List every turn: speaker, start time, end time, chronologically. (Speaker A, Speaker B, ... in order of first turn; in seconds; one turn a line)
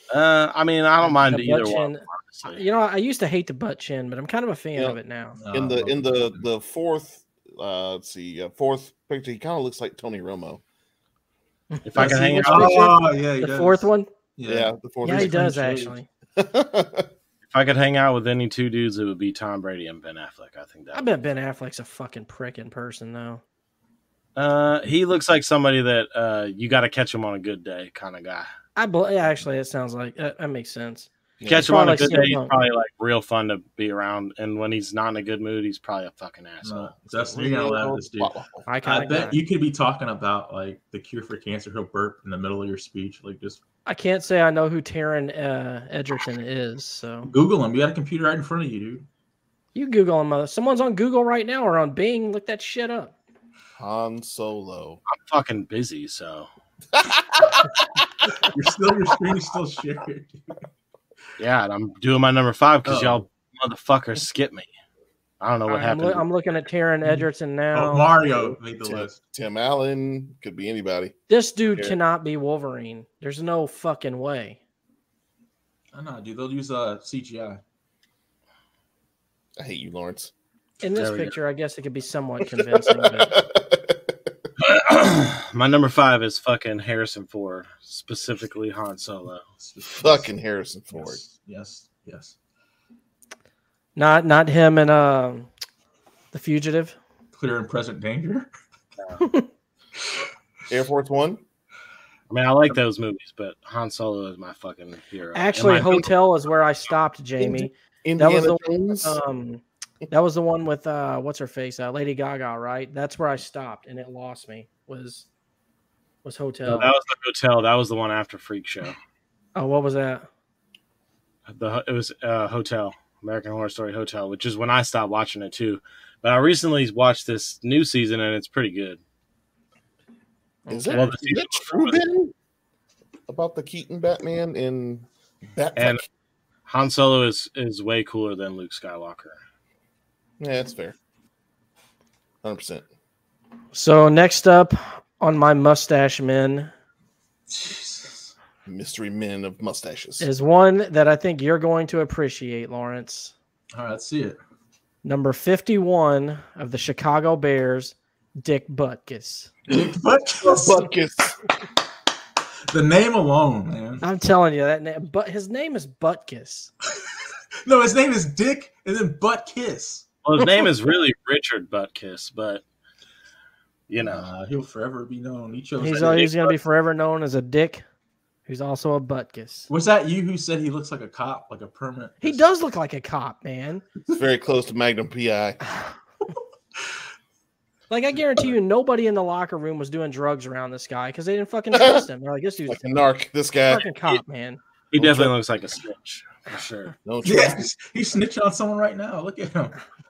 Speaker A: 0.1-2.6
Speaker B: 1.0-5.4
Speaker C: 5.4-6.5
Speaker D: 5.5-10.6
Speaker B: 11.7-14.1
Speaker A: 11.8-13.0
Speaker C: 12.0-15.9
Speaker D: 14.5-15.6
Speaker B: 15.0-16.1
Speaker D: 16.4-17.1
Speaker A: 17.5-21.1
Speaker B: 20.9-23.4
Speaker A: 24.4-28.5
Speaker B: 28.8-32.5
Speaker D: 31.4-31.9
Speaker A: 31.4-36.9
Speaker C: 36.6-38.3
Speaker D: 37.1-38.7
Speaker B: 38.7-39.4
Speaker C: 38.8-43.6
Speaker B: 43.9-47.3
Speaker C: 47.2-49.1
Speaker B: 49.8-53.1
Speaker D: 53.8-55.0
Speaker A: 55.1-56.5
Speaker D: 56.9-58.1
Speaker C: 58.4-60.5
Speaker A: 61.4-64.7
Speaker C: 62.9-63.2
Speaker A: 65.4-66.2
Speaker B: 65.7-68.1
Speaker C: 67.1-69.2
Speaker D: 68.3-71.1
Speaker B: 71.3-74.6
Speaker C: 75.9-77.6
Speaker D: 79.6-80.3
Speaker B: 80.8-83.3
Speaker A: 80.9-81.3
Speaker D: 82.5-84.3
Speaker A: 84.6-89.4
Speaker C: 89.6-90.3
Speaker D: 89.8-91.2
Speaker C: 90.9-92.3
Speaker B: 94.0-95.5
Speaker B: 96.3-97.0
Speaker C: 97.3-98.5
Speaker A: 99.0-99.2
Speaker B: 99.2-99.5
Speaker D: 100.7-101.4
Speaker A: 102.3-106.1
Speaker B: 105.3-115.3
Speaker D: 107.4-109.2
Speaker B: 116.2-116.9
Speaker A: 116.7-119.0
Speaker B: 119.5-120.3
Speaker A: 121.5-129.0
Speaker B: 130.7-131.1
Speaker D: 130.7-132.3
Speaker A: 130.9-132.0
Speaker D: 133.3-136.0
Speaker A: 135.8-136.0
Speaker A: 136.7-139.4
Speaker D: 140.4-141.0
Speaker D: 142.4-142.8
Speaker B: 143.7-146.7
Speaker C: 147.5-148.3
Speaker D: 148.7-150.3
Speaker B: 150.2-153.3
Speaker C: 153.7-154.4
Speaker B: 155.0-159.5
Speaker C: 159.7-160.9
Speaker D: 160.4-161.4
Speaker C: 162.7-164.0
Speaker B: 164.0-166.7
Speaker C: 167.7-170.1
Speaker A: 170.2-172.6
Speaker A: 173.9-174.3
Speaker C: 174.0-176.5
Speaker B: 175.8-177.8
Speaker A: 175.9-176.3
Speaker B: 178.5-179.7
Speaker C: 179.7-182.4
Speaker B: 182.2-183.8
Speaker D: 184.1-185.6
Speaker B: 187.9-192.8
Speaker D: 191.7-192.1
Speaker D: 192.7-193.9
Speaker B: 193.7-194.6
Speaker A: 194.9-197.0
Speaker D: 195.0-195.3
Speaker D: 197.1-197.7
Speaker C: 197.2-199.8